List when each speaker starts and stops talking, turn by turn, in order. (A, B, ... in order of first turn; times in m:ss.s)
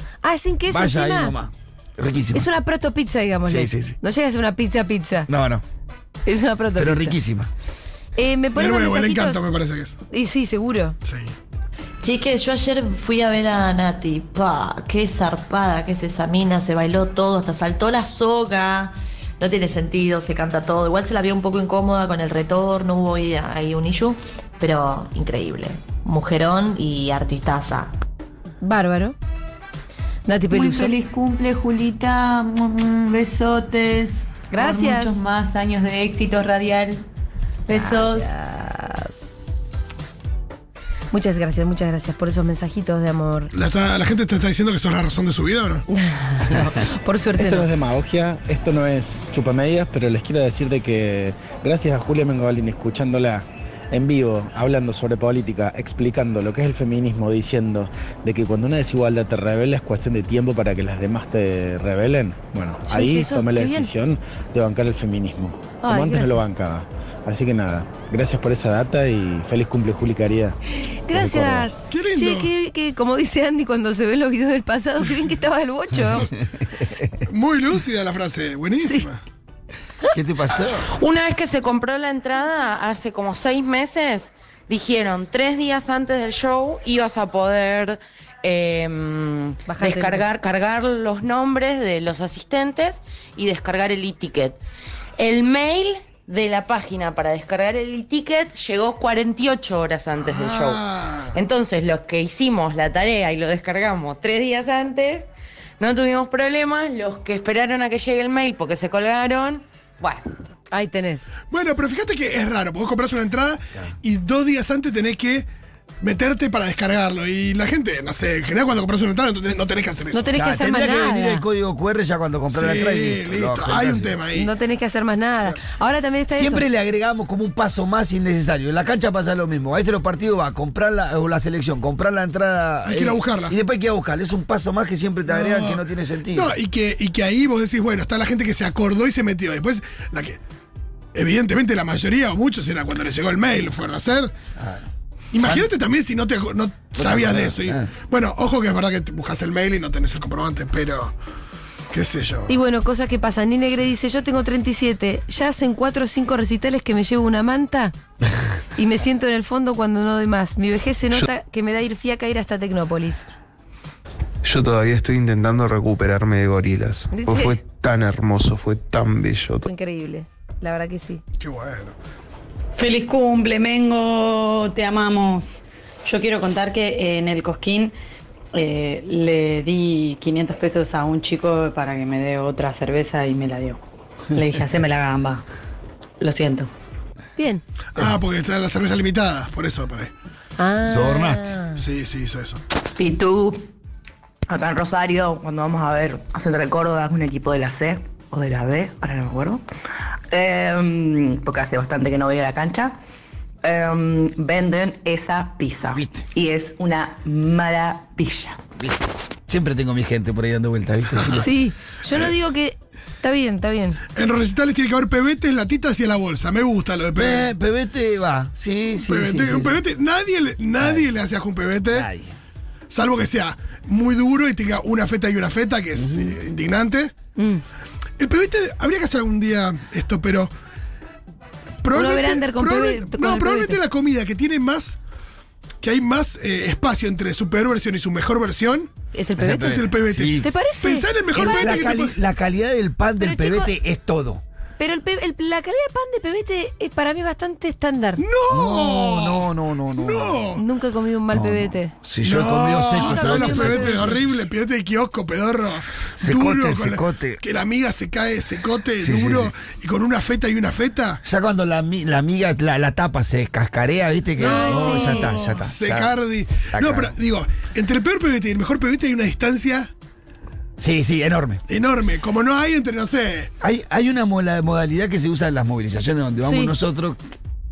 0:00.2-0:01.3 A
0:00.7-0:02.5 B
0:02.3-0:05.3 A
0:03.4-0:04.0 B
0:05.3-0:05.6 B
0:06.2-0:07.2 A
0:06.8-0:07.5 B
0:08.2-0:09.5 A
0:08.5-0:10.0 C
0:10.1-0:11.0 A
0:11.0-0:11.3 C
0:12.0-0:27.9 D
0:28.6-0:29.2 A
0:30.2-0:31.0 A
0:30.5-0:37.0 E
0:34.5-0:35.2 A
0:37.7-0:38.3 E
0:37.7-0:39.5 A
0:41.1-0:43.5 A
0:43.5-0:45.8 C
0:45.9-0:47.7 A
0:47.3-1:10.6 F
1:02.9-1:03.9 A
1:05.8-1:06.5 A
1:11.0-1:16.3 A
1:11.1-1:11.7 F
1:11.9-1:12.5 C
1:16.1-1:17.1 B
1:17.3-1:19.2 C
1:20.1-1:20.9 B
1:20.9-1:34.6 G
1:29.7-1:30.2 A
1:35.2-1:45.3 G
1:40.2-1:41.4 C
1:45.8-1:50.2 G
1:50.7-1:51.2 A
1:51.5-1:55.5 C
1:56.0-2:00.3 C
2:00.1-2:01.4 A
2:00.3-2:04.2 B
2:02.5-2:04.5 C
2:04.3-2:06.6 A
2:06.3-2:16.5 B
2:12.8-2:13.5 C
2:15.3-2:20.4 C
2:21.1-2:24.3 C
2:24.6-2:25.7 B
2:25.3-2:31.1 C
2:26.9-2:27.9 B
2:31.9-2:32.5 C
2:32.5-2:37.9 A
2:38.8-2:43.3 A
2:44.4-2:49.7 H
2:47.1-2:47.6 A
2:49.6-2:51.2 A
2:51.4-2:51.9 C
2:52.8-2:55.4 I
2:56.0-2:57.9 I
2:58.5-3:05.4 I
3:06.2-3:06.7 I
3:07.4-3:07.6 A
3:07.9-3:10.1 C
3:10.6-3:11.8 A
3:10.8-3:11.5 B
3:11.8-3:12.6 C
3:13.0-3:13.7 J
3:14.5-3:19.6 J
3:20.3-3:23.0 J
3:23.6-3:28.6 J
3:25.9-3:26.2 B
3:28.8-3:31.5 B
3:31.3-3:34.0 A
3:34.1-3:37.5 C
3:37.1-3:39.8 B
3:39.0-3:42.1 C
3:40.8-3:41.1 B
3:41.9-3:42.3 B
3:42.9-3:47.1 C
3:46.0-3:46.4 B
3:47.4-3:47.6 A
3:48.2-3:50.5 C
3:51.8-3:55.0 C
3:51.9-3:53.8 A
3:55.8-4:02.2 C
3:59.1-3:59.8 A
3:59.4-4:00.5 B
4:00.4-4:01.8 A
4:01.3-4:04.4 B
4:03.2-4:03.7 A
4:04.8-4:08.2 A
4:08.2-4:10.6 C
4:08.5-4:10.4 B
4:10.6-4:11.9 A
4:11.3-4:14.2 B
4:12.2-4:21.2 C
4:13.0-4:14.2 A
4:16.2-4:17.4 B
4:19.0-4:19.5 B
4:21.2-4:27.2 B
4:24.4-4:29.9 C
4:24.4-4:25.3 A
4:30.8-4:31.6 B
4:31.7-4:33.5 C
4:33.6-4:37.3 B
4:36.4-4:36.7 A